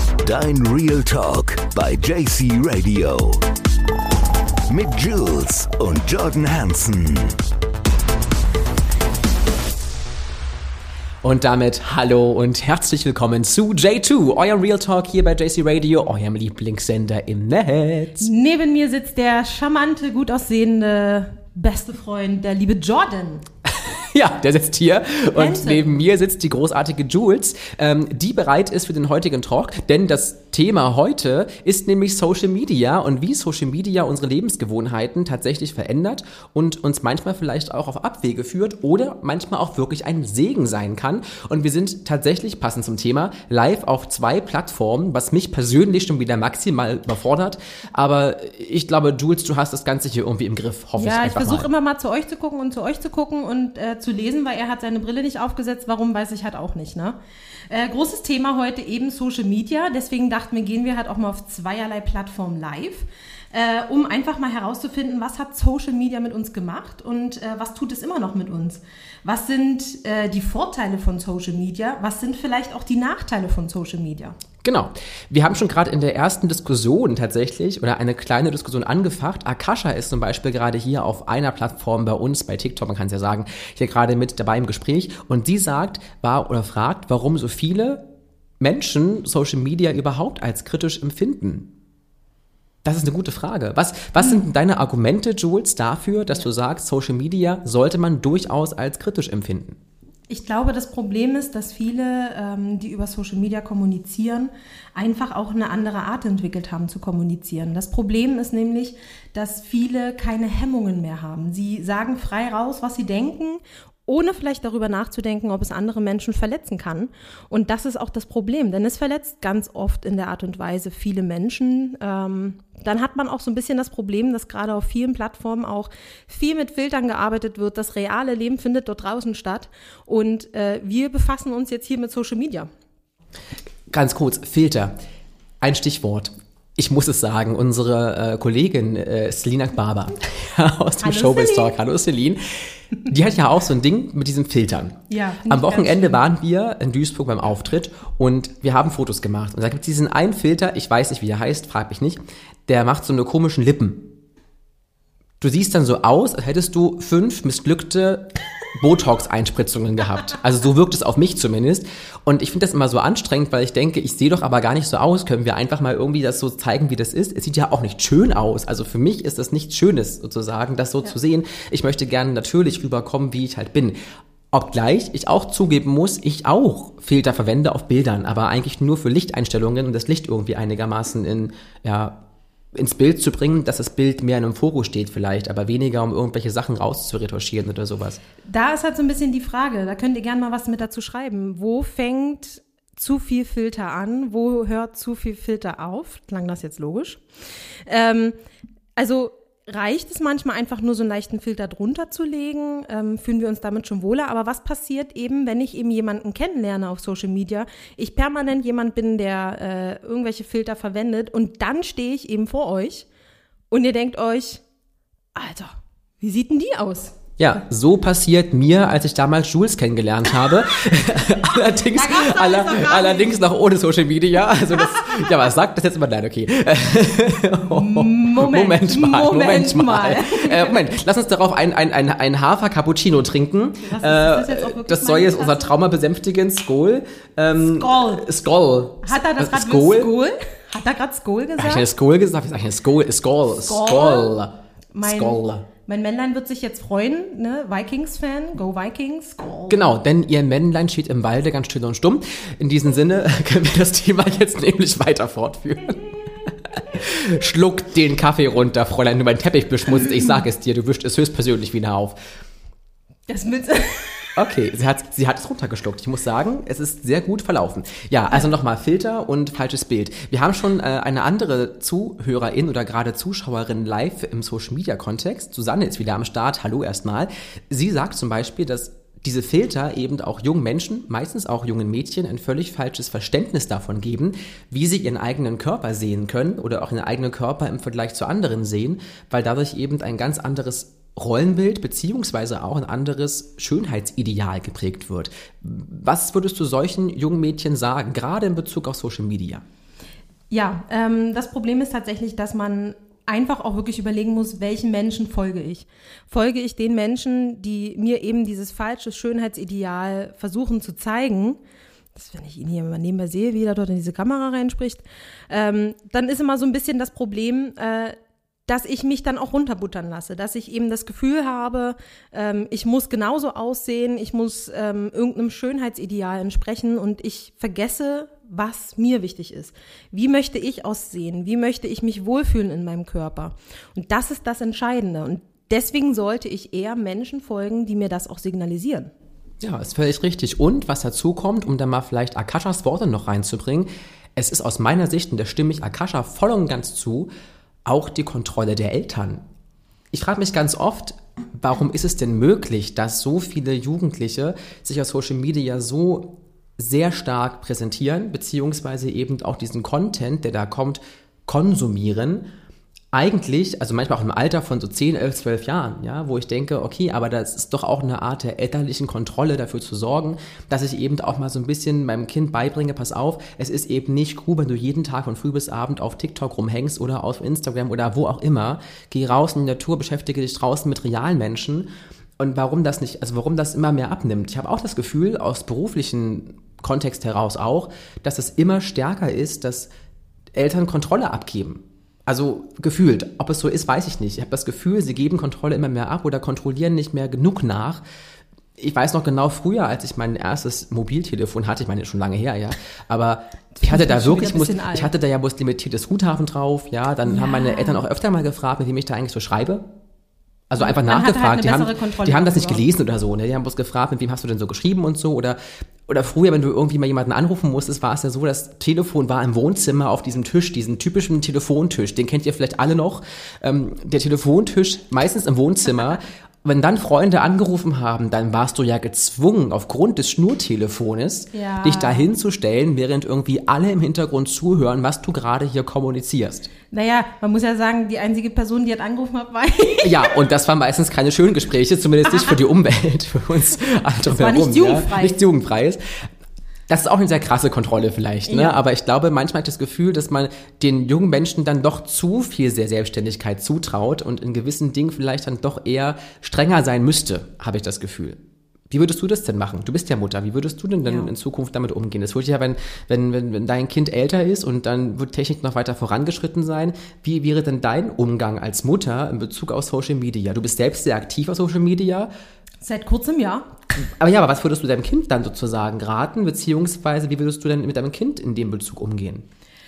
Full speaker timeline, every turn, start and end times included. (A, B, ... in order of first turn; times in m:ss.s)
0:00.2-0:03.4 A
0:04.7-0:07.4 A
0:11.2-0:18.3 B
0:18.2-0:23.4 C
0:23.7-0:51.7 B
0:25.3-0:25.9 C
0:51.0-0:57.2 C
0:57.7-1:14.4 C
1:14.6-1:28.1 B
1:28.6-1:31.7 B
1:32.8-1:39.8 B
1:34.2-1:34.4 C
1:40.3-2:12.7 C
2:13.9-2:14.9 B
2:15.6-2:34.1 B
2:21.0-2:21.8 C
2:25.1-2:26.2 C
2:35.4-2:54.0 B
2:54.5-3:02.2 B
3:02.7-3:08.2 B
3:08.4-3:17.2 C
3:17.9-3:18.4 C
3:19.0-3:33.1 C
3:33.7-3:34.6 C
3:35.4-3:37.2 C
3:37.4-4:00.1 B
3:41.9-3:43.4 C
3:47.7-3:50.9 C
3:53.8-3:55.7 C
3:57.6-3:58.3 C
3:59.0-4:01.9 C
4:01.6-4:05.7 B
4:03.5-4:04.4 C
4:04.9-4:09.8 C
4:09.7-4:22.2 B
4:23.3-4:24.3 C
4:24.4-4:59.6 B
5:00.5-5:11.6 C
5:12.2-5:18.2 C
5:18.7-5:39.1 C
5:39.6-5:47.3 B
5:47.9-5:49.4 B
5:50.1-6:02.5 B
6:03.1-6:29.9 B
6:30.6-6:38.0 B
6:38.8-6:49.9 B
6:43.8-6:45.1 C
6:47.3-6:48.0 C
6:50.7-7:16.7 B
6:50.8-6:52.8 C
7:11.5-7:12.3 C
7:16.9-7:20.3 C
7:20.0-7:26.0 B
7:22.3-7:22.6 C
7:24.3-7:25.4 C
7:26.9-7:52.3 B
7:28.5-7:28.8 C
7:52.8-7:53.7 C
7:54.0-7:59.5 B